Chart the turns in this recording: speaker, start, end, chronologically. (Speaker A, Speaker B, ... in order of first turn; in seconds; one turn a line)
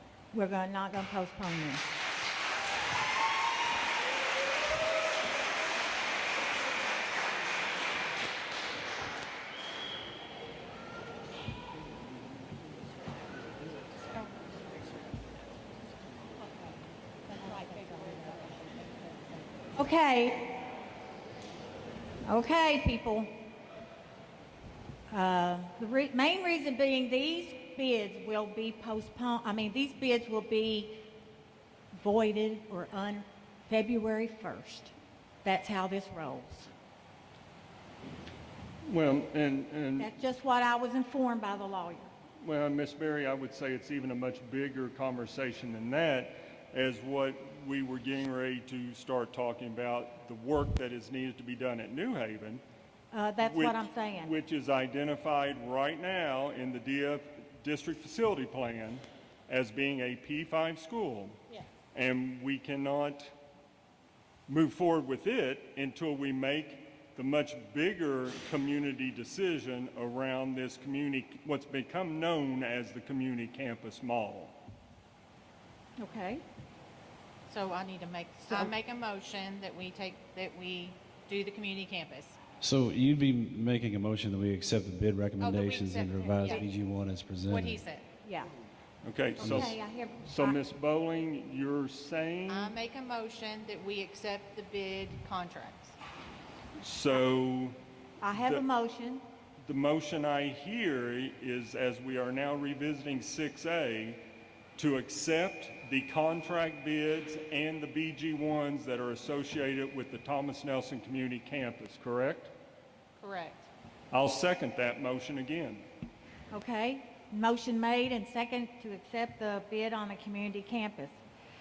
Speaker A: 0.3-1.9
Speaker A: 19.8-20.5
Speaker A: 22.2-23.3
Speaker A: 25.1-31.0
Speaker A: 31.9-34.9
Speaker A: 35.4-36.7
Speaker B: 38.8-40.1
Speaker A: 40.0-42.1
Speaker B: 42.4-52.6
Speaker A: 53.1-54.4
Speaker B: 53.4-61.4
Speaker B: 61.9-63.3
Speaker B: 64.5-74.5
Speaker A: 76.0-76.4
Speaker C: 77.5-82.4
Speaker D: 82.6-87.8
Speaker C: 85.4-86.7
Speaker C: 87.5-88.0
Speaker A: 88.2-88.5
Speaker B: 89.0-92.7
Speaker A: 89.4-90.6
Speaker D: 89.4-89.7
Speaker C: 92.5-96.0
Speaker B: 96.8-97.8
Speaker A: 98.2-99.2
Speaker B: 98.3-98.6
Speaker B: 99.6-104.2
Speaker B: 104.8-112.5
Speaker C: 113.2-113.7
Speaker B: 114.1-115.8
Speaker A: 116.5-121.2